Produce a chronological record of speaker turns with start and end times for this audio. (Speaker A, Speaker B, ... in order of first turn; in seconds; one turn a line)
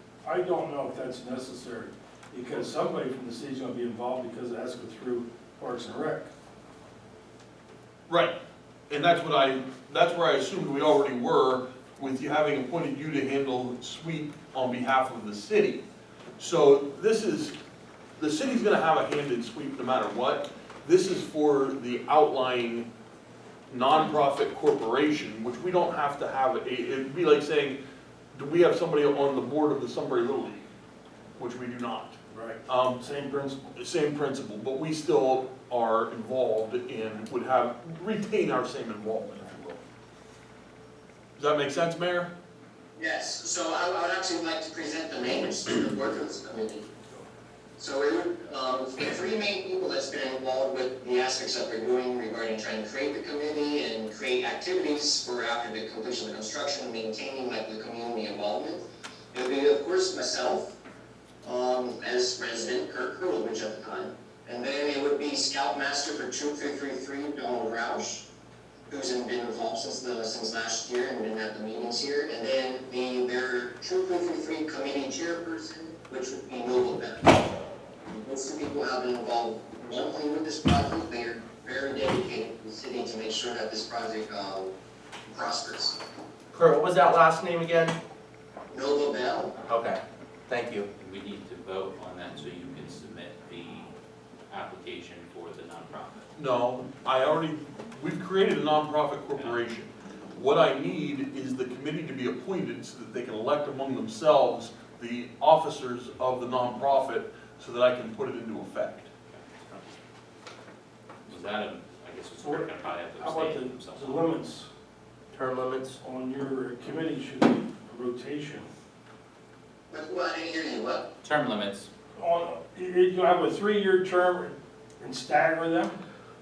Speaker A: 0.2-6.3
Speaker B: 8.1-8.3
Speaker B: 8.9-15.8
Speaker B: 16.4-17.5
Speaker B: 18.2-22.9
Speaker B: 23.7-27.8
Speaker B: 28.3-30.6
Speaker B: 31.4-33.0
Speaker A: 32.3-33.6
Speaker B: 33.7-39.8
Speaker B: 41.4-42.3
Speaker C: 42.9-46.9
Speaker C: 47.8-60.7
Speaker C: 61.4-68.2
Speaker C: 68.9-77.4
Speaker C: 78.1-84.7
Speaker C: 85.3-86.0
Speaker D: 86.5-88.0
Speaker C: 88.7-89.5
Speaker D: 89.7-90.9
Speaker E: 91.0-93.9
Speaker E: 94.5-96.3
Speaker B: 96.3-109.1
Speaker E: 109.3-109.8
Speaker E: 111.3-114.2
Speaker A: 112.4-112.7
Speaker A: 113.2-114.7
Speaker D: 115.3-116.0
Speaker A: 116.0-118.7
Speaker C: 119.9-121.1
Speaker E: 121.2-121.9
Speaker A: 122.2-126.0